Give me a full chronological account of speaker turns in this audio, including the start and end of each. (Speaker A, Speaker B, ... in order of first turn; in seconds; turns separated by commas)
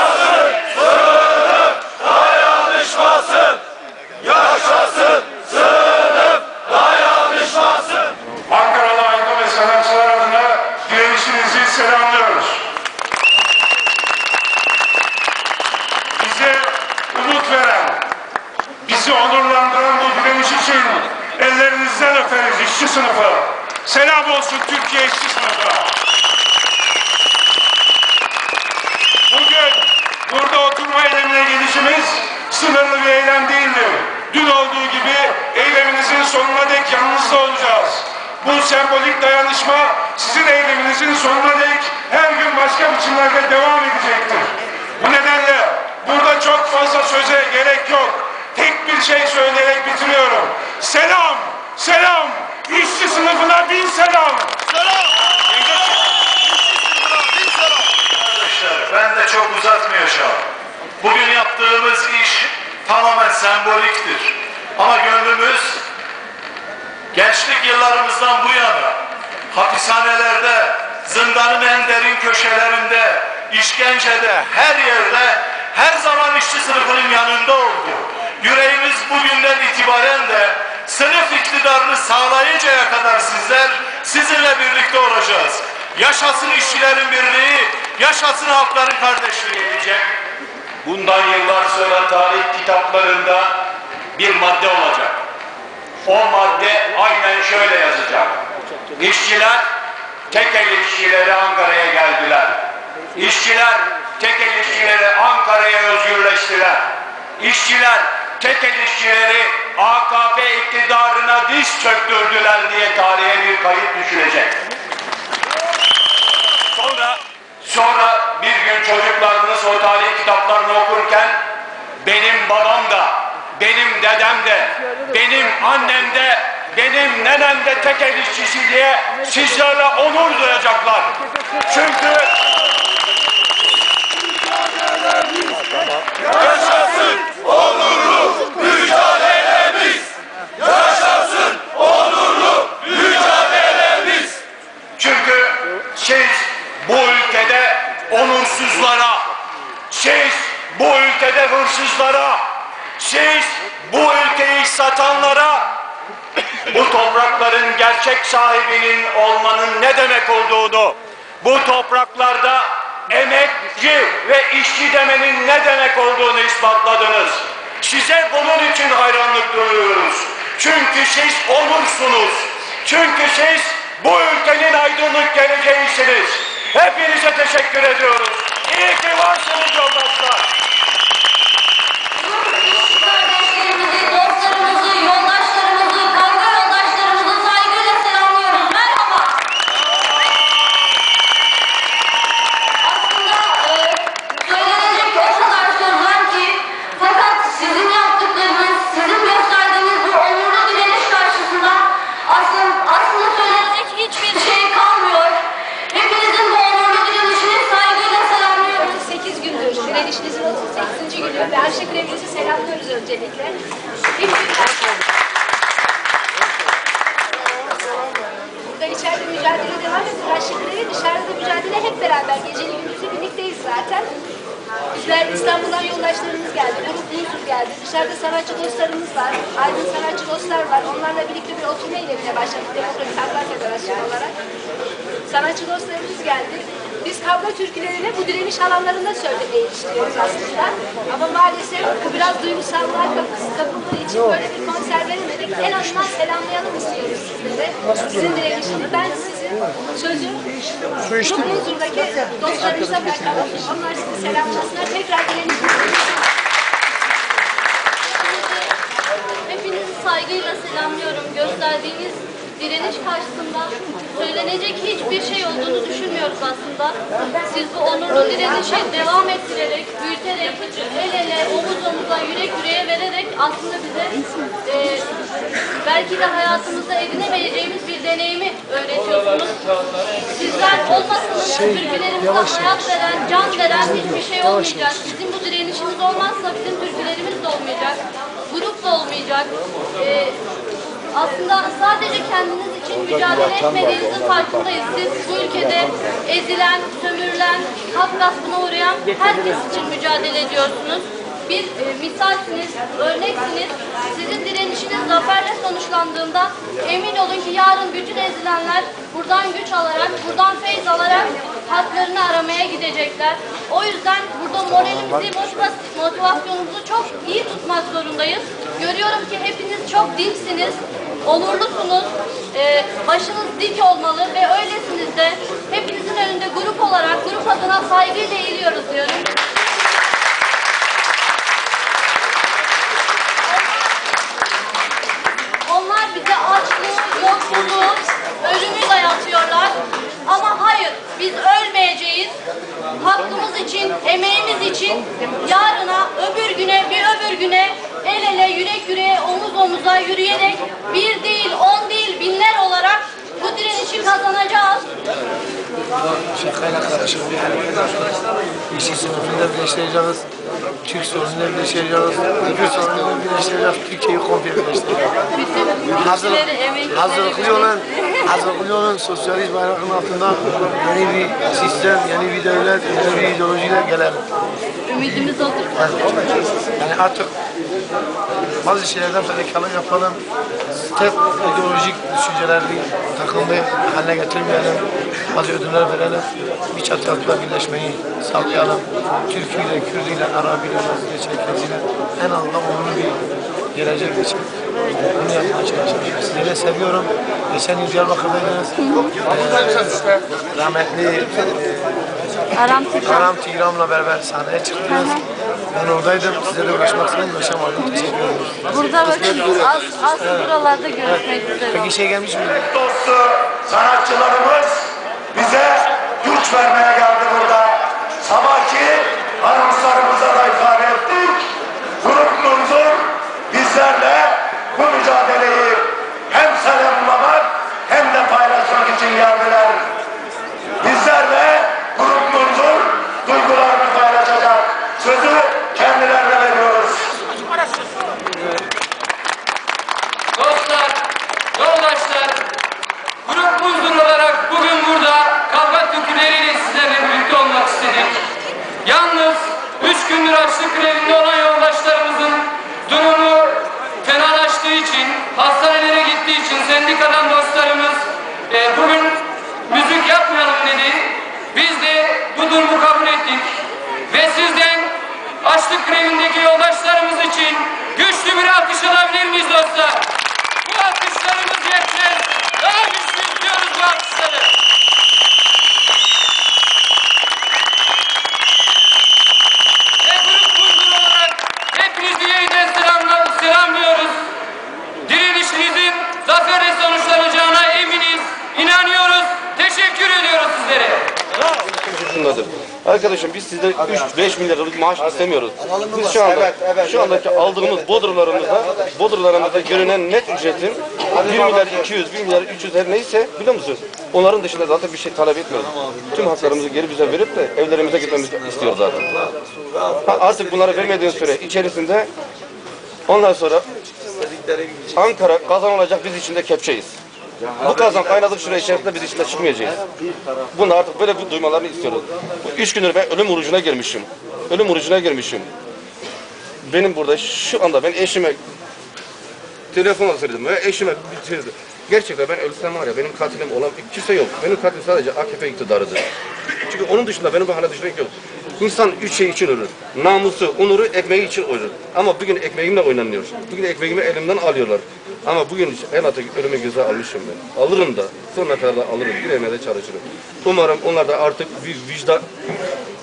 Speaker A: 8.5-12.6, Speaker A: 16.2-18.0, Speaker A: 18.8-25.9, Speaker A: 29.3-54.5, Speaker B: 58.2-60.4, Speaker B: 61.0-65.8, Speaker B: 67.1-69.0, Speaker B: 69.5-89.8, Speaker C: 89.7-90.1, Speaker C: 90.8-93.6, Speaker C: 94.1-95.2, Speaker C: 96.0-98.4, Speaker C: 98.9-99.6, Speaker C: 100.3-102.6, Speaker C: 103.1-106.9, Speaker C: 107.4-114.5, Speaker C: 116.7-121.4, Speaker C: 122.0-131.1, Speaker C: 131.7-132.3, Speaker C: 138.2-138.5, Speaker C: 142.6-144.4, Speaker C: 145.0-149.3, Speaker C: 149.9-152.4, Speaker C: 153.0-155.7, Speaker C: 156.7-180.4, Speaker D: 182.1-189.4, Speaker D: 192.8-209.0, Speaker E: 208.9-213.6, Speaker E: 214.1-215.0, Speaker E: 218.7-224.1, Speaker E: 224.9-234.3, Speaker E: 235.3-250.4, Speaker E: 251.0-256.0, Speaker D: 258.1-258.7, Speaker D: 259.4-275.1, Speaker D: 275.8-279.7, Speaker D: 280.2-290.4, Speaker D: 291.1-329.3, Speaker D: 335.6-342.3, Speaker D: 342.9-354.9, Speaker F: 356.2-358.2, Speaker F: 358.7-360.2, Speaker F: 360.8-365.1, Speaker D: 365.3-368.1, Speaker F: 365.9-374.2, Speaker D: 374.9-376.4, Speaker F: 375.8-377.3, Speaker F: 378.6-380.2, Speaker F: 380.9-393.2, Speaker F: 393.7-402.0, Speaker D: 398.8-399.1, Speaker D: 402.6-403.2, Speaker F: 403.0-409.6, Speaker D: 404.9-405.2, Speaker D: 408.7-411.9, Speaker F: 410.1-412.7, Speaker G: 412.8-414.0, Speaker H: 412.8-414.8, Speaker H: 415.4-415.7, Speaker G: 415.4-420.1, Speaker H: 416.2-417.7, Speaker H: 418.3-421.4, Speaker G: 420.6-421.2, Speaker H: 422.0-423.0, Speaker G: 422.4-422.7, Speaker H: 423.5-429.8, Speaker H: 430.8-437.0, Speaker G: 431.9-432.4, Speaker G: 433.3-434.1, Speaker G: 436.1-437.0, Speaker I: 440.4-442.4, Speaker I: 443.2-448.2, Speaker I: 448.8-463.5, Speaker I: 464.1-474.5, Speaker I: 480.0-484.2, Speaker I: 485.0-491.1, Speaker G: 491.4-509.1, Speaker G: 510.0-512.1, Speaker G: 513.1-513.6, Speaker G: 514.9-517.0, Speaker G: 517.6-519.8, Speaker G: 520.5-525.5, Speaker G: 526.6-528.4, Speaker G: 529.7-552.3